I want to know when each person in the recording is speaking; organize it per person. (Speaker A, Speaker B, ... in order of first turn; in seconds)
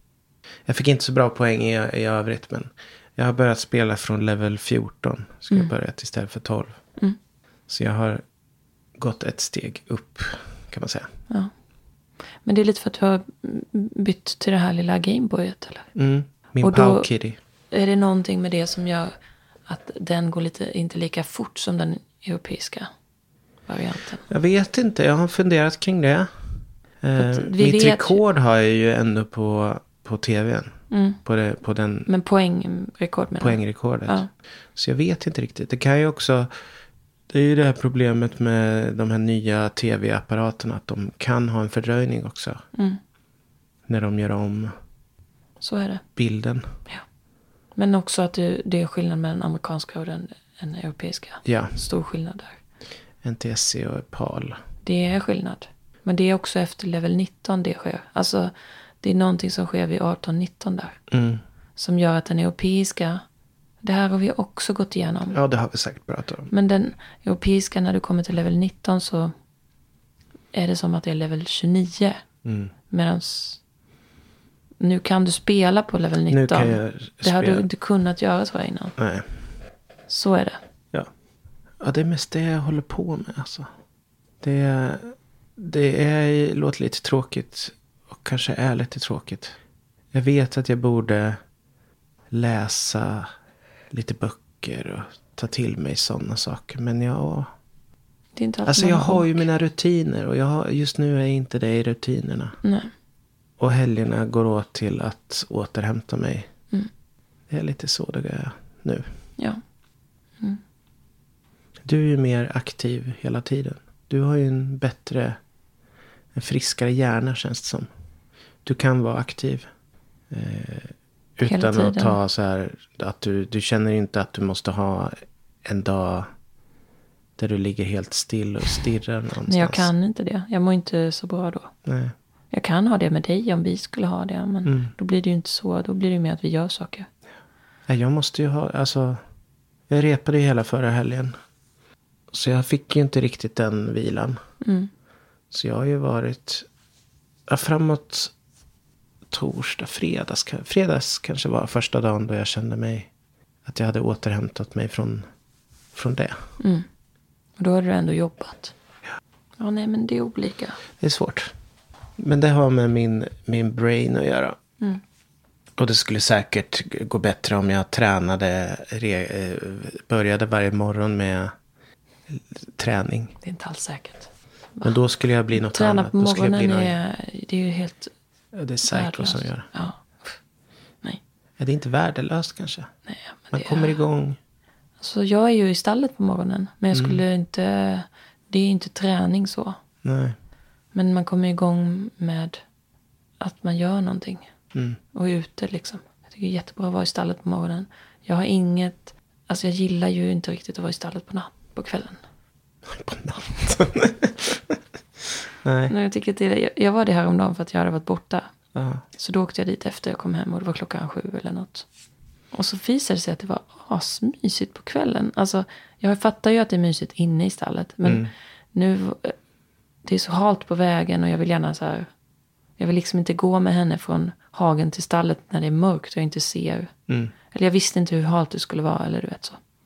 Speaker A: 0.7-6.8, 7.7-8.2, 9.0-11.1, 15.9-17.4, 24.3-26.3, 27.0-30.7, 31.2-32.1, 33.4-36.5, 37.3-42.6, 43.9-44.7, 46.1-46.7, 51.4-51.8, 53.2-54.6, 61.1-61.4, 65.3-66.5, 72.4-72.7, 76.3-77.7, 79.0-79.3, 81.8-83.7, 84.4-89.5, 90.1-91.4, 92.3-93.3, 93.9-97.5, 98.7-102.6, 103.6-106.5, 107.5-109.0, 111.8-115.3, 116.3-117.9, 118.6-119.7, 120.3-126.3, 127.4-129.9, 131.8-132.1, 134.7-134.9, 137.9-139.2, 139.9-141.3, 142.3-144.4, 145.5-146.7, 147.5-148.3, 149.3-153.1, 153.7-155.2, 155.9-156.4, 161.0-161.5, 162.2-164.6, 165.8-171.5, 172.3-173.3, 174.8-177.0, 178.5-179.7, 181.6-182.9, 183.5-184.4, 186.9-187.2, 190.0-190.3, 202.9-204.8, 205.6-205.9, 208.7-209.0, 218.0-218.3, 227.1-227.3
Speaker B: 12.4-15.9, 16.6-17.1, 17.7-19.1, 19.7-22.9, 23.6-24.2, 27.2-28.2, 30.9-31.2, 32.1-34.3, 45.6-46.0, 47.7-52.6, 54.8-61.0, 61.8-63.2, 63.8-65.4, 66.5-69.3, 70.5-72.2, 72.9-73.6, 74.8-79.0, 80.1-80.6, 98.3-99.5, 102.6-102.9, 121.4-122.2, 129.4-131.7, 132.5-137.1, 144.6-144.9, 156.6-156.8, 157.6-158.7, 159.6-160.8, 173.4-174.9, 175.5-178.1, 178.8-180.3, 183.1-184.0, 185.0-189.8, 190.9-192.6, 193.4-194.5, 195.1-202.2, 205.9-208.5, 209.2-211.8, 212.5-219.3, 220.0-222.1, 222.8-226.9, 227.5-229.6